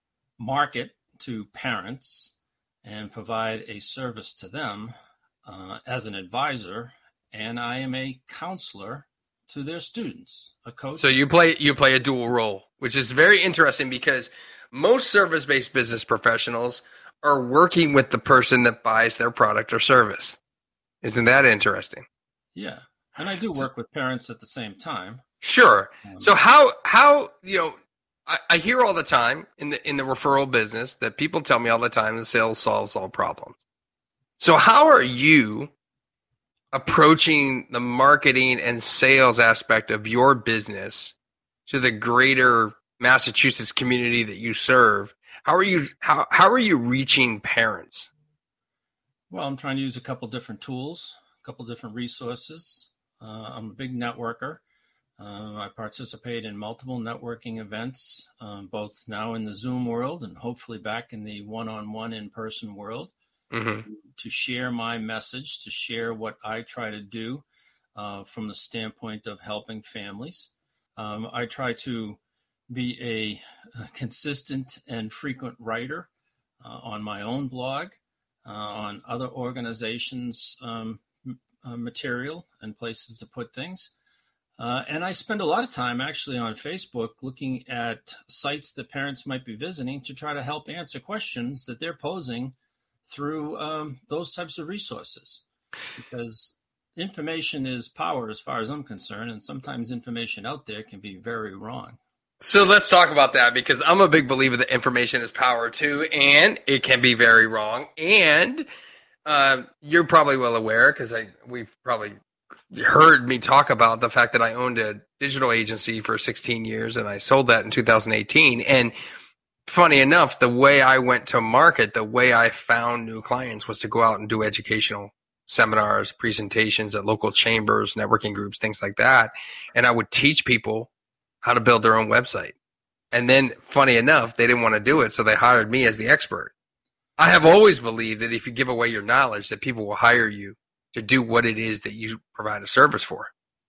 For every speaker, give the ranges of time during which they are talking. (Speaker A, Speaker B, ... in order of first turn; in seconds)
Speaker A: 0.4-11.2, 22.5-25.2, 26.1-26.3, 49.3-54.6, 55.2-63.1, 63.9-72.2, 72.7-76.1, 76.6-83.9, 84.6-92.5, 93.1-95.4, 96.0-102.0
Speaker B: 11.0-20.4, 21.0-22.1, 25.4-27.8, 28.3-33.6, 34.4-35.7, 36.7-41.1, 41.7-48.1, 63.5-63.9, 102.4-108.7, 109.3-112.2, 112.7-118.9, 119.7-130.9, 131.4-132.6, 133.1-136.5, 137.2-143.3